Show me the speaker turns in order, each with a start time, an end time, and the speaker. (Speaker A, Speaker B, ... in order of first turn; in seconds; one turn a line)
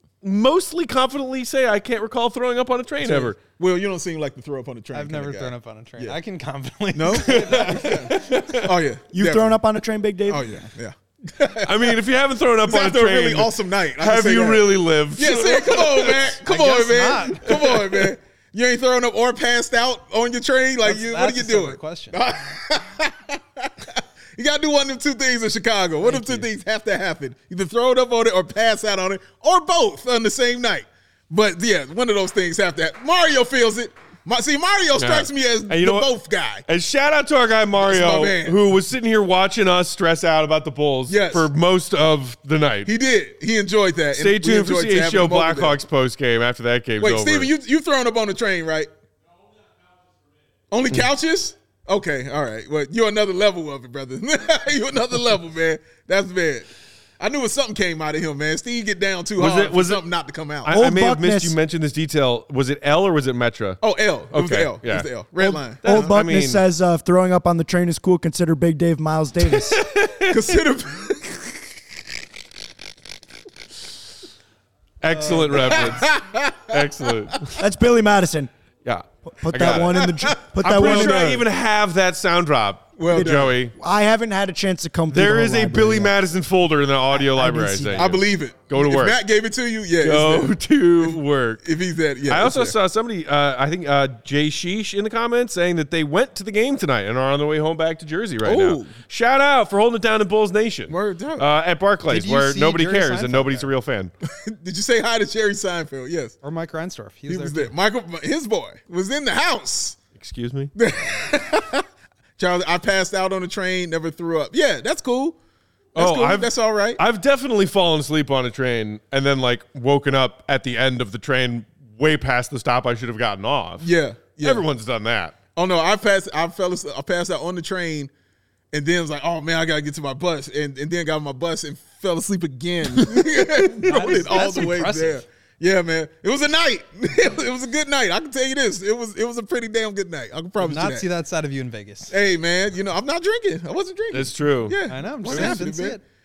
Speaker A: 0.2-3.4
Speaker B: 3.0-6.2
Speaker C: 4.9-8.4
Speaker B: 6.9-9.6
Speaker A: 7.1-8.7
Speaker D: 9.1-10.5
Speaker B: 10.3-12.0
Speaker A: 11.6-16.2
Speaker B: 12.6-36.6
Speaker C: 16.4-17.8
Speaker C: 20.8-22.2
Speaker C: 26.0-26.4
Speaker A: 35.0-36.1
Speaker A: 36.7-42.9
Speaker B: 37.8-38.6
Speaker B: 41.1-41.5
Speaker B: 42.8-45.8
Speaker A: 44.1-47.5
Speaker B: 47.0-48.9
Speaker B: 50.7-56.7
Speaker B: 57.2-60.7
Speaker A: 59.4-60.0
Speaker A: 60.6-63.8
Speaker D: 60.7-61.5
Speaker B: 63.8-66.1
Speaker A: 64.3-66.6
Speaker D: 65.4-69.8
Speaker A: 69.5-70.6
Speaker B: 70.3-71.7
Speaker A: 75.0-76.2
Speaker C: 75.1-75.8
Speaker B: 75.2-77.1
Speaker A: 76.7-77.6
Speaker D: 77.6-78.5
Speaker A: 78.8-83.7
Speaker D: 79.3-81.4
Speaker B: 80.0-81.3
Speaker B: 83.0-83.6
Speaker D: 83.1-86.1
Speaker A: 85.1-89.2
Speaker D: 87.1-88.1
Speaker B: 88.0-92.8
Speaker A: 90.0-91.6
Speaker A: 92.3-104.1
Speaker B: 98.4-98.9
Speaker B: 100.9-101.5
Speaker C: 102.1-103.7
Speaker B: 104.2-106.3
Speaker C: 106.4-107.7
Speaker B: 107.3-110.0
Speaker A: 110.2-110.7
Speaker B: 110.8-111.8
Speaker B: 112.4-115.4
Speaker B: 115.9-117.0
Speaker A: 115.9-125.3
Speaker B: 123.8-124.6
Speaker B: 125.5-128.1
Speaker B: 128.7-141.1
Speaker C: 133.0-135.2
Speaker C: 140.6-142.1
Speaker B: 142.1-146.0
Speaker A: 144.1-145.6
Speaker C: 144.9-146.0